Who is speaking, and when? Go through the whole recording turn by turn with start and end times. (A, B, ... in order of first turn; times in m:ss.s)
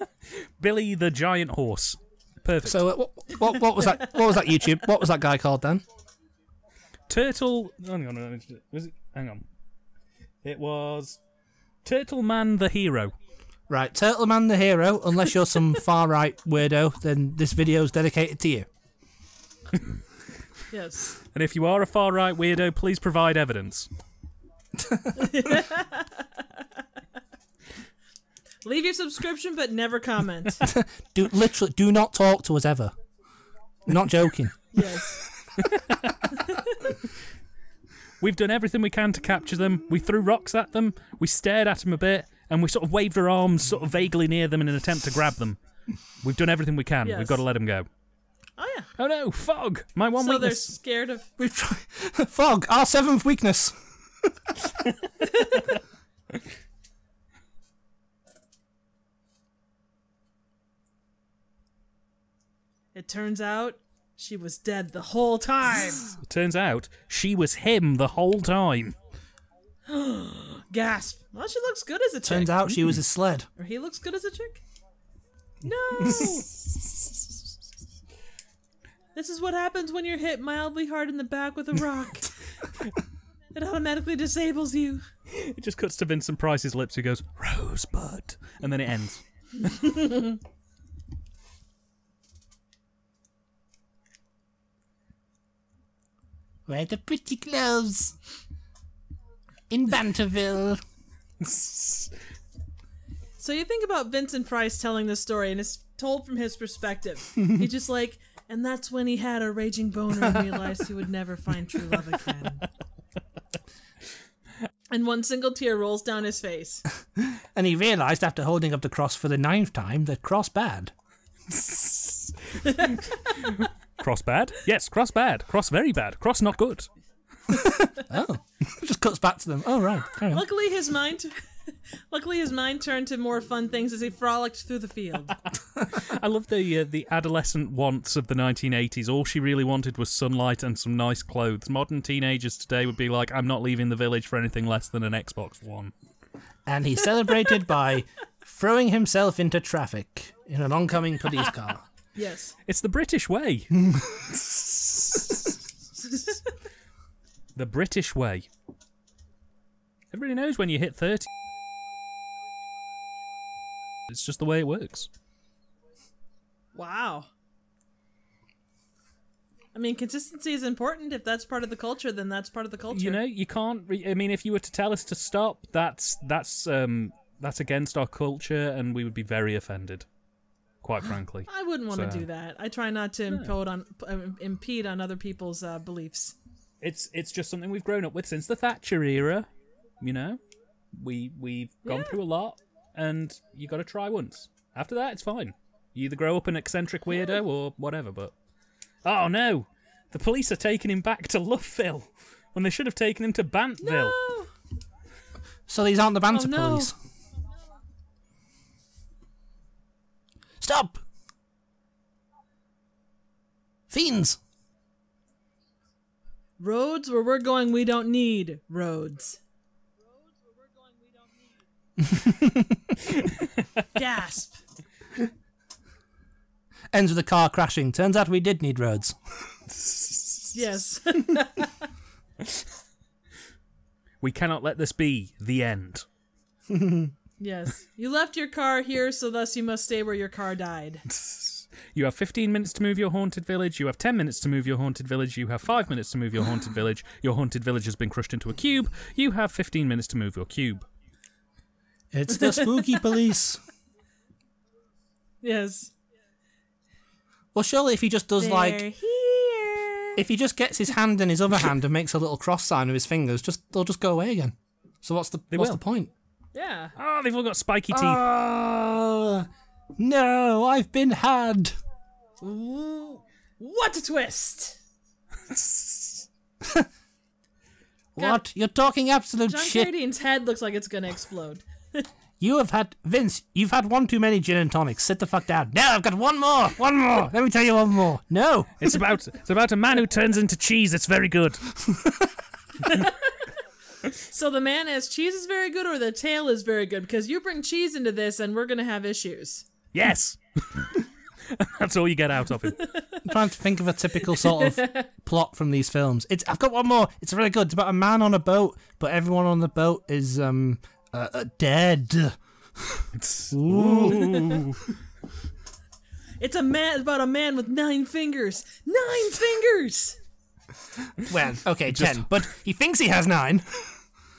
0:00.4-0:02.8 A
0:02.6-0:05.8 B
0:07.1-0:09.5 A
0:10.4-0:11.2 A
0:11.8-0:13.1 A
0:13.7-0:18.7 B
0:20.7-0:21.2 C
0:21.3-0:23.9 A
0:24.8-0:25.2 B
0:25.2-0:26.4 C
0:28.6-0:30.7 C
0:30.6-0:32.9 B
0:33.9-0:34.8 B
0:34.7-0:35.3 C
0:35.5-0:36.2 A
0:36.4-0:36.8 C
0:38.2-0:45.6 A
0:46.2-0:47.9 A
0:47.1-0:47.4 C
0:48.6-0:48.9 C
0:49.0-0:50.8 A
0:50.2-0:51.3 C
0:51.4-0:54.5 B
0:55.3-0:55.6 C
1:03.0-1:06.2 C
1:06.2-1:09.0 A
1:09.9-1:12.6 C
1:12.2-1:13.5 B
1:13.6-1:14.6 C
1:15.6-1:16.6 C
1:19.2-1:22.3 C
1:23.5-1:25.0 C
1:25.3-1:30.1 A
1:30.0-1:30.3 C
1:36.7-1:38.2 B
1:39.7-1:40.8 B
1:41.4-1:42.2 A
1:43.4-1:52.7 C
1:54.9-1:56.8 C
1:57.2-2:00.9 B
2:01.5-2:06.9 A
2:02.7-2:03.0 C
2:07.5-2:10.5 B
2:10.3-2:15.4 C
2:15.8-2:25.9 A
2:26.7-2:31.9 B
2:32.2-2:32.6 C
2:32.6-2:35.6 A
2:33.9-2:34.3 B
2:36.1-2:36.4 C
2:37.6-2:38.5 A
2:40.1-2:41.3 A
2:44.1-2:45.1 A
2:46.8-2:47.3 C
2:49.8-2:53.2 C
2:52.9-3:00.1 A
3:00.8-3:02.3 A
3:01.5-3:06.4 C
3:06.8-3:09.5 A
3:10.0-3:10.4 A
3:10.9-3:18.3 A
3:11.9-3:12.2 C
3:19.0-3:24.2 A
3:23.8-3:24.5 C
3:25.7-3:26.9 B
3:26.3-3:26.9 C
3:30.6-3:31.0 B
3:33.9-3:34.4 B
3:36.6-3:39.4 C
3:42.0-3:42.8 B
3:43.1-3:43.8 A
3:44.0-3:44.6 C
3:46.9-3:49.2 B
3:49.7-3:50.6 A
3:50.5-3:51.9 C
3:54.2-3:56.1 A
3:56.7-3:57.1 B
3:57.4-4:01.0 C
4:01.1-4:10.9 A
4:12.1-4:13.6 B
4:12.4-4:13.0 C
4:15.4-4:15.9 C
4:17.6-4:18.8 B
4:18.4-4:20.2 C
4:20.2-4:26.1 B
4:25.5-4:25.8 A
4:26.6-4:26.9 C
4:27.0-4:28.2 A
4:27.9-4:31.8 B
4:32.4-4:34.8 C
4:35.4-4:36.3 A
4:36.6-4:36.9 B
4:38.2-4:39.9 B
4:39.5-4:42.1 C
4:42.4-4:48.9 B
4:48.8-4:51.7 A
4:51.8-4:52.3 B
4:52.8-4:53.4 C
4:54.2-4:59.7 C
4:59.9-5:02.9 A
5:02.9-5:03.3 C
5:03.2-5:14.6 B
5:04.4-5:05.1 C
5:13.1-5:14.9 A
5:16.4-5:20.2 C
5:21.2-5:24.0 B
5:21.9-5:22.3 A